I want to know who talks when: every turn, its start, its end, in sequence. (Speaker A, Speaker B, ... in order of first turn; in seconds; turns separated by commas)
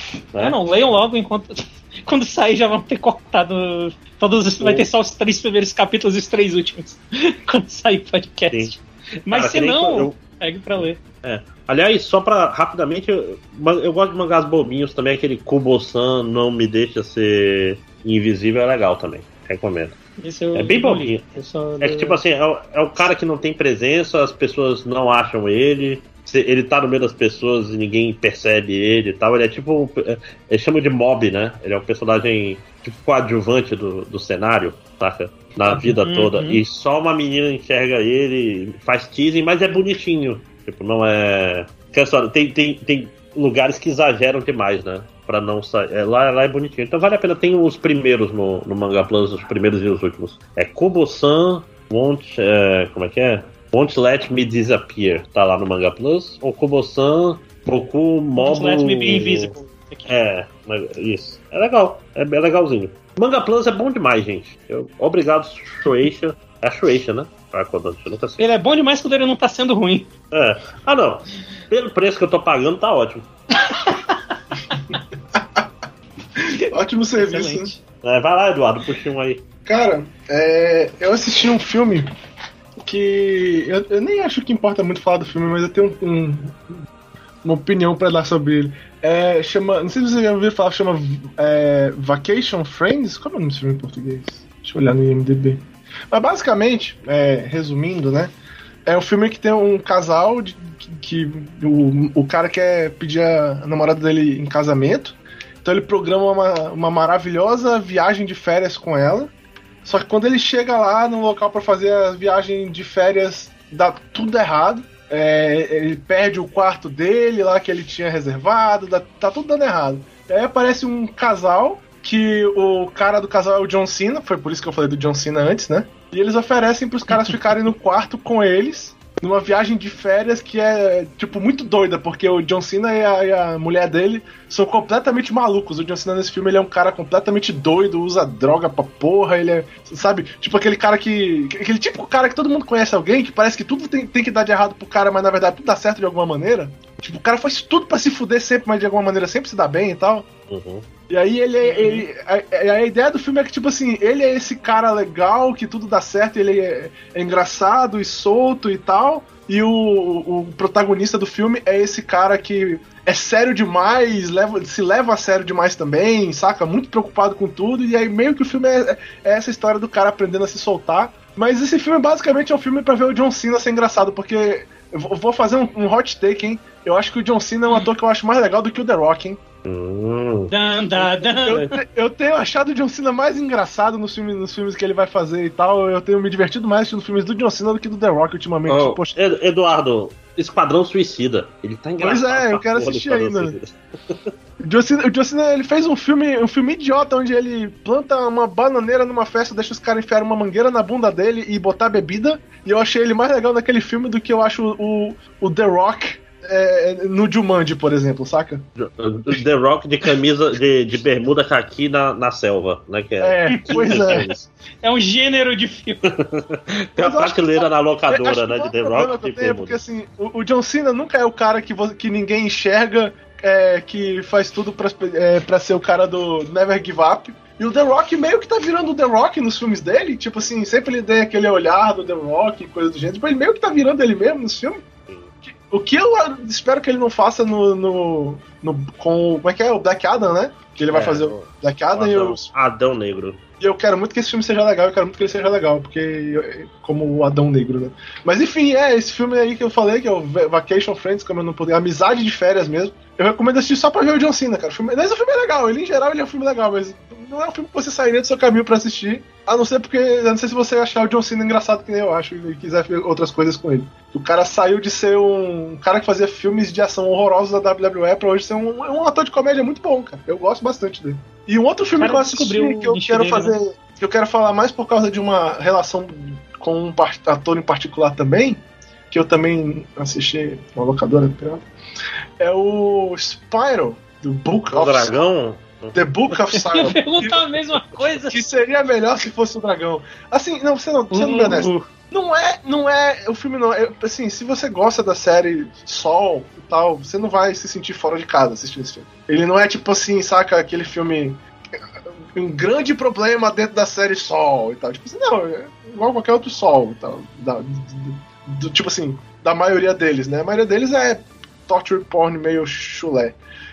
Speaker A: 0.4-11.0, Speaker B: 4.6-4.9, Speaker B: 8.5-8.8, Speaker B: 9.3-10.2, Speaker B: 10.8-20.0, Speaker A: 20.2-22.2, Speaker B: 20.5-59.5, Speaker A: 35.7-36.6, Speaker A: 58.4-60.1, Speaker B: 60.1-68.5, Speaker A: 68.4-70.1, Speaker B: 70.3-73.3, Speaker A: 73.7-74.3, Speaker C: 75.3-75.6, Speaker C: 76.4-77.7, Speaker A: 77.2-77.8, Speaker B: 78.0-79.4, Speaker C: 79.6-82.1, Speaker C: 82.8-86.6, Speaker C: 87.4-98.3, Speaker C: 98.8-109.3, Speaker C: 109.8-150.3, Speaker B: 150.5-150.9, Speaker C: 151.1-179.4, Speaker A: 151.6-152.1, Speaker B: 179.6-180.5, Speaker A: 180.5-181.7, Speaker C: 181.0-189.2, Speaker B: 188.7-193.7, Speaker C: 192.0-193.5, Speaker C: 194.6-208.7, Speaker B: 208.8-214.5, Speaker C: 213.2-214.3, Speaker A: 213.5-213.8, Speaker A: 214.8-216.0, Speaker B: 216.1-219.8, Speaker C: 217.0-234.8, Speaker B: 235.1-235.3, Speaker C: 235.5-242.5, Speaker B: 240.9-243.4, Speaker C: 243.6-281.6, Speaker A: 272.0-273.6, Speaker C: 282.4-285.2, Speaker B: 284.7-286.0, Speaker C: 285.9-301.4, Speaker A: 286.6-288.4, Speaker A: 291.1-291.8, Speaker C: 302.3-313.4